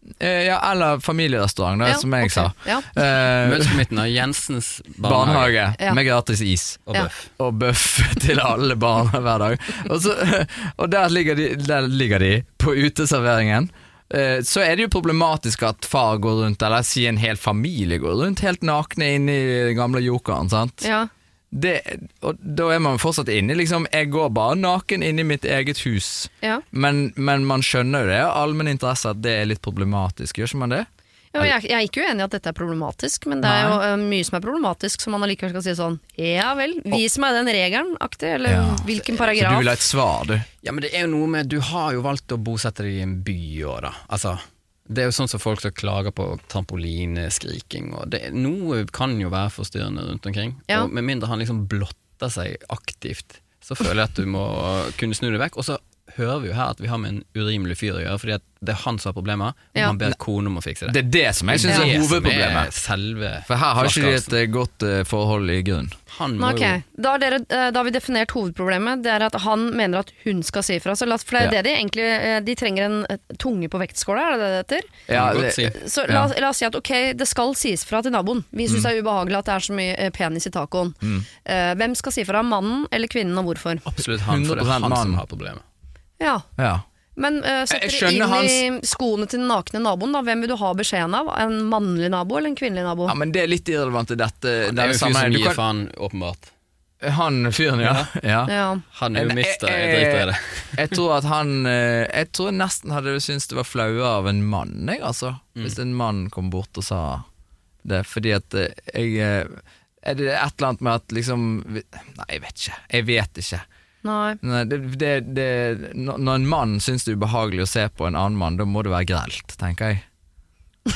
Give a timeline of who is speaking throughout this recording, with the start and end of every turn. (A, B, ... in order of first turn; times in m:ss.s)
0:00.2-0:03.8 A
0:01.8-0:02.9 B
0:03.4-0:05.6 C
0:05.0-0:20.9 A
0:06.9-0:07.3 C
0:20.8-0:21.1 B
0:21.5-0:30.9 A
0:31.3-0:39.7 B
0:33.4-0:33.8 A
0:38.4-0:40.5 A
0:40.6-1:01.0 C
1:00.9-1:02.7 A
1:01.5-1:04.3 C
1:03.5-1:05.9 A
1:06.1-1:06.8 C
1:06.4-1:14.9 B
1:15.1-1:16.3 A
1:15.1-1:15.8 C
1:15.7-1:23.8 B
1:21.0-1:21.3 A
1:23.8-1:25.6 C
1:24.2-1:25.2 A
1:26.2-1:26.4 B
1:26.6-1:26.8 A
1:27.2-1:33.1 B
1:27.7-1:28.6 A
1:33.1-1:35.6 A
1:34.7-1:36.5 C
1:37.0-1:38.5 A
1:37.8-1:38.1 C
1:38.5-1:38.8 B
1:38.9-1:41.0 C
1:39.1-1:47.2 A
1:47.8-1:53.6 A
1:54.0-1:54.4 B
1:54.4-2:00.0 A